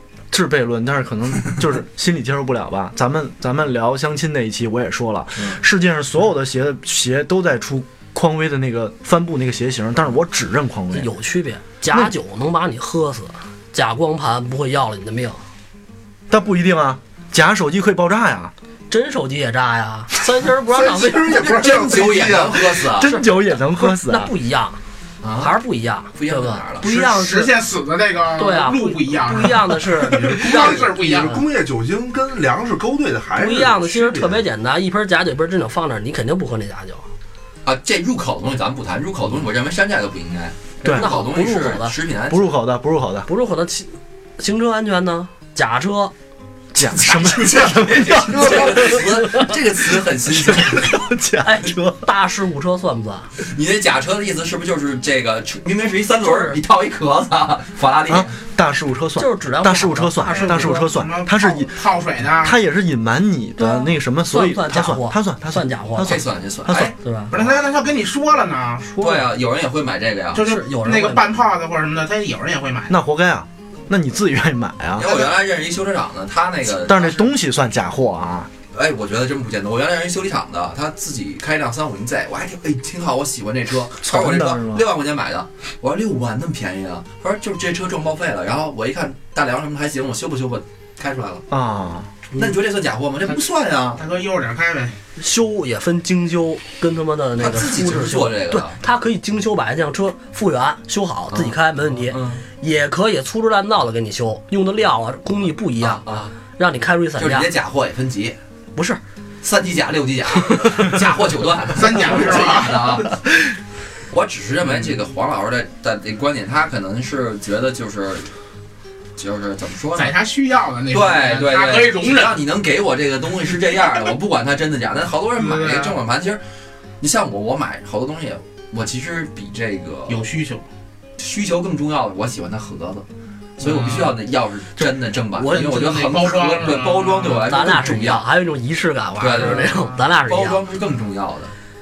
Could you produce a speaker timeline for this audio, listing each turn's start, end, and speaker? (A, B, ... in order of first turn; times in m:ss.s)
0:00.3-0:11.1 A
0:10.9-0:15.4 B
0:16.3-0:18.5 A
0:18.9-0:21.7 B
0:20.5-0:22.8 C
0:21.4-0:23.1 D
0:22.9-0:24.3 A
0:23.0-0:24.8 B
0:25.2-0:25.6 D
0:25.4-0:27.6 B
0:26.2-0:26.9 D
0:26.8-0:31.4 E
0:28.4-0:31.4 B
0:30.0-0:34.4 C
0:33.4-0:37.1 B
0:37.6-0:42.5 D
0:40.8-0:42.0 B
0:40.8-0:41.1 A
0:42.3-0:43.3 A
0:43.3-0:46.1 B
0:46.7-0:52.1 A
0:46.8-0:51.1 D
0:51.4-0:53.3 B
0:53.4-0:58.4 D
0:56.2-0:56.6 B
0:58.1-1:01.8 A
0:59.2-1:00.9 B
1:00.3-1:02.6 E
1:02.4-1:06.9 A
1:03.6-1:06.2 B
1:06.0-1:07.6 D
1:07.0-1:07.3 B
1:07.3-1:09.1 E
1:09.0-1:09.3 B
1:09.0-1:10.5 D
1:10.4-1:13.0 E
1:10.4-1:11.3 B
1:12.9-1:15.1 A
1:15.0-1:17.3 D
1:15.1-1:15.3 E
1:16.8-1:18.5 A
1:18.7-1:31.4 D
1:24.0-1:24.8 A
1:31.5-1:32.1 A
1:32.4-1:34.0 D
1:34.0-1:35.0 E
1:35.2-1:47.5 B
1:37.4-1:38.8 D
1:41.3-1:42.4 D
1:45.8-1:46.4 D
1:47.2-1:48.4 D
1:48.8-1:49.0 B
1:49.4-1:53.2 D
1:50.4-1:50.9 B
1:51.7-1:53.0 E
1:54.1-1:58.3 D
1:59.2-2:00.2 D
2:00.0-2:02.4 E
2:00.9-2:06.4 D
2:05.4-2:06.0 E
2:07.0-2:10.3 D
2:10.1-2:10.6 E
2:11.2-2:13.0 D
2:13.6-2:18.2 D
2:13.6-2:14.2 E
2:15.4-2:16.3 B
2:15.5-2:17.8 E
2:17.2-2:20.6 B
2:19.2-2:21.5 D
2:19.4-2:20.0 E